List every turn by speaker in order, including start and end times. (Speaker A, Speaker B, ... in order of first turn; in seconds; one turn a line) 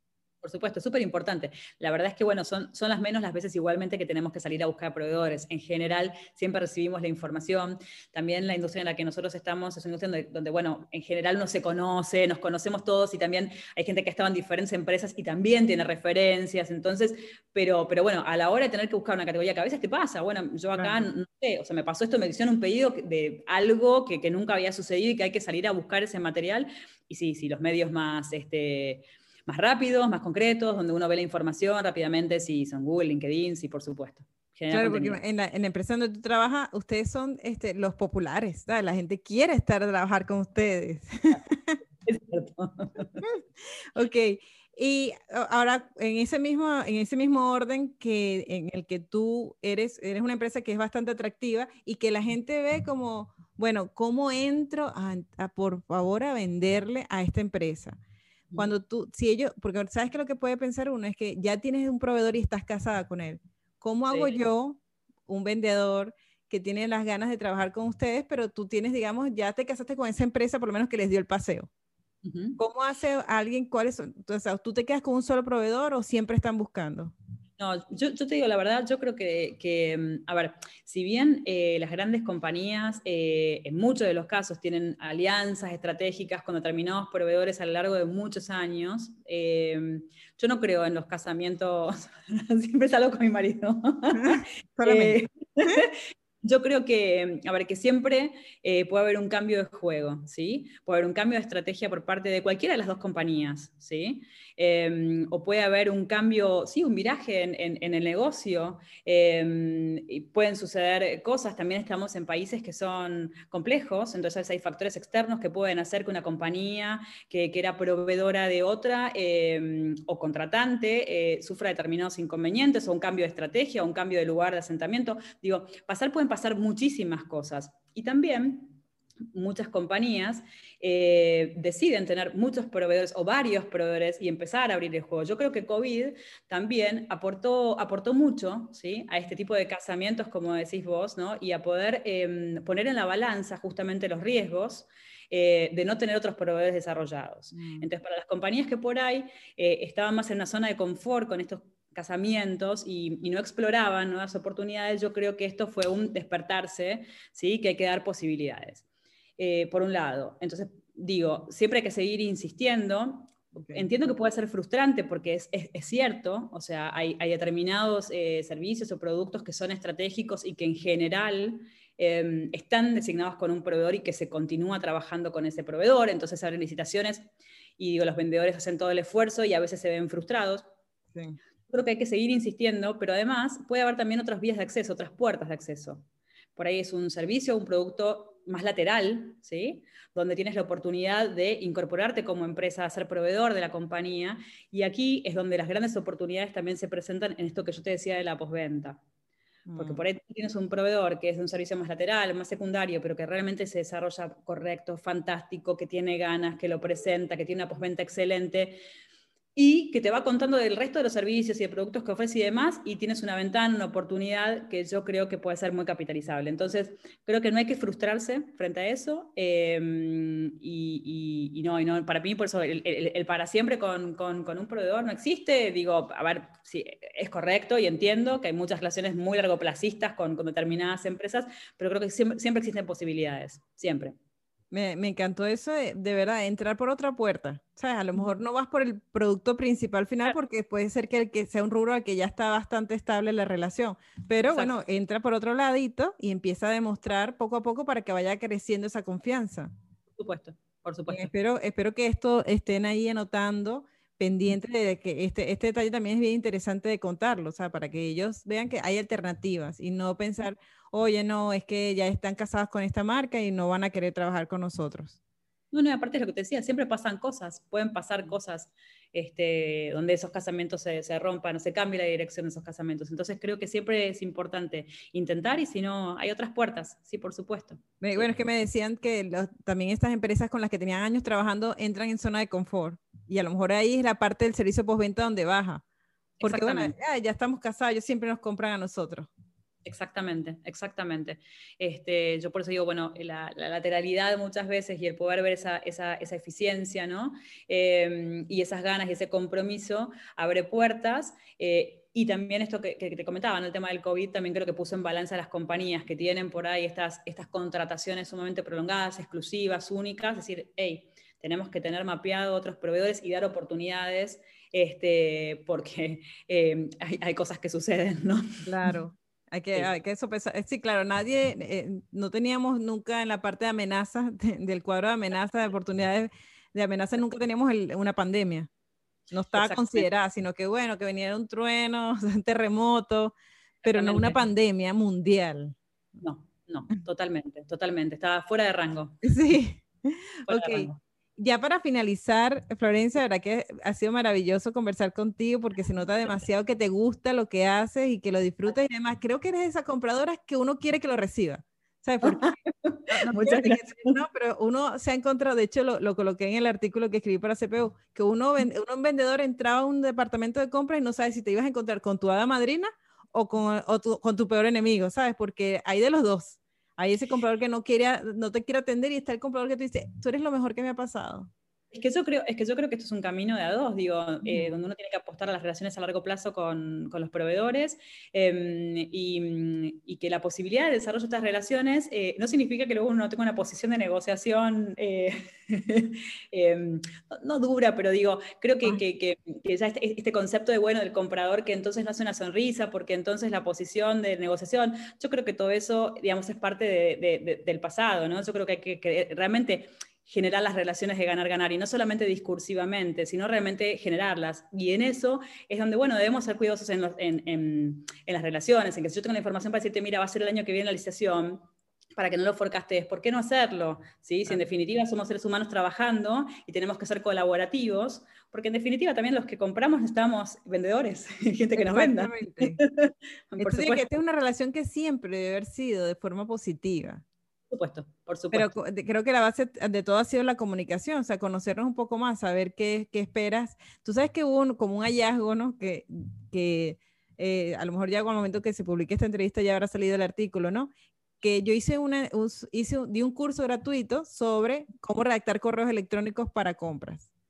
Speaker A: 0.4-35.2
Speaker B: 20.7-21.1
Speaker B: 34.7-41.8
Speaker A: 42.0-43.2
Speaker B: 43.9-58.0
Speaker B: 58.6-71.7
Speaker A: 64.1-64.4
Speaker A: 72.2-72.6
Speaker B: 72.6-77.1
Speaker A: 77.6-128.8
Speaker B: 94.1-95.7
Speaker A: 129.3-158.8
Speaker B: 147.5-147.9
Speaker A: 159.4-180.7
Speaker B: 163.6-163.9
Speaker A: 181.7-186.0
Speaker A: 186.6-199.0
Speaker B: 199.7-200.0
Speaker A: 199.8-208.8
Speaker A: 209.5-234.1
Speaker B: 234.7-249.7
Speaker A: 244.5-244.7
Speaker A: 250.2-251.3
Speaker B: 251.1-265.2
Speaker A: 265.7-278.4
Speaker B: 278.0-285.8
Speaker A: 286.4-286.9
Speaker B: 286.4-289.3
Speaker A: 289.9-318.6
Speaker B: 318.6-328.7
Speaker B: 329.3-335.8
Speaker A: 329.5-330.1
Speaker A: 333.8-334.5
Speaker A: 336.2-339.2
Speaker B: 339.2-352.6
Speaker A: 340.5-341.0
Speaker A: 352.2-354.1
Speaker B: 353.1-371.5
Speaker A: 371.9-424.1
Speaker B: 374.4-374.8
Speaker B: 421.8-422.8
Speaker B: 423.6-427.2
Speaker A: 427.7-428.7
Speaker B: 428.5-447.3